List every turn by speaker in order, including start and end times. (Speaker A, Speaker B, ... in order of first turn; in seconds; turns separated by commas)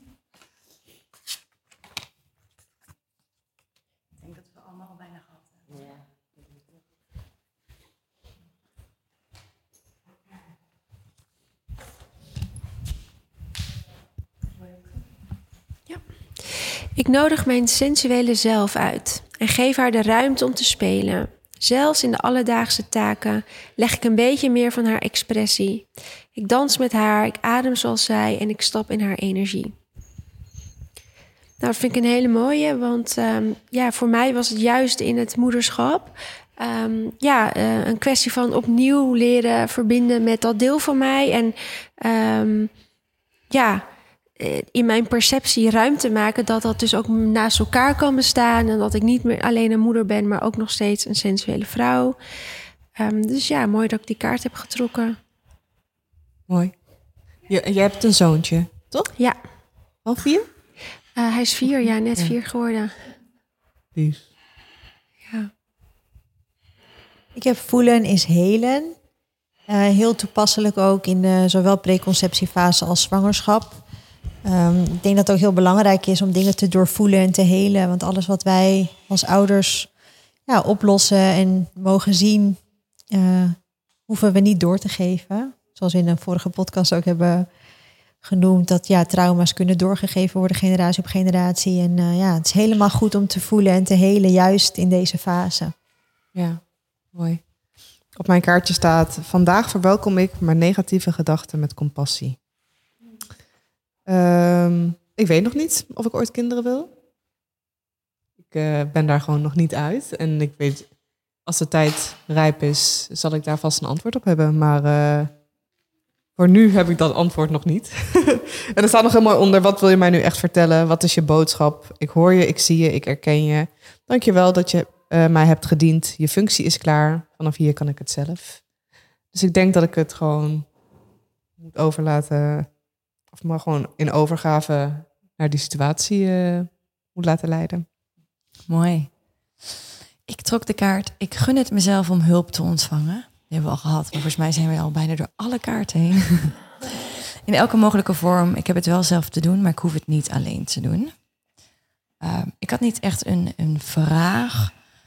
Speaker A: 15.9-29.7, Speaker A: 31.6-42.7, Speaker A: 43.5-52.2, Speaker A: 53.0-55.2, Speaker B: 56.5-59.1, Speaker B: 60.0-60.5, Speaker A: 61.1-63.1, Speaker B: 64.0-64.2, Speaker A: 65.3-65.5, Speaker C: 67.3-69.0, Speaker C: 69.7-73.8, Speaker C: 74.4-79.9, Speaker C: 80.5-87.5, Speaker C: 88.2-95.7, Speaker B: 96.3-97.5, Speaker B: 98.1-102.4, Speaker B: 104.0-106.9, Speaker B: 108.5-115.4, Speaker B: 116.3-128.7, Speaker B: 129.3-130.7, Speaker B: 131.6-137.9, Speaker D: 138.7-139.6, Speaker D: 140.3-146.9, Speaker D: 147.4-151.3, Speaker D: 152.2-154.8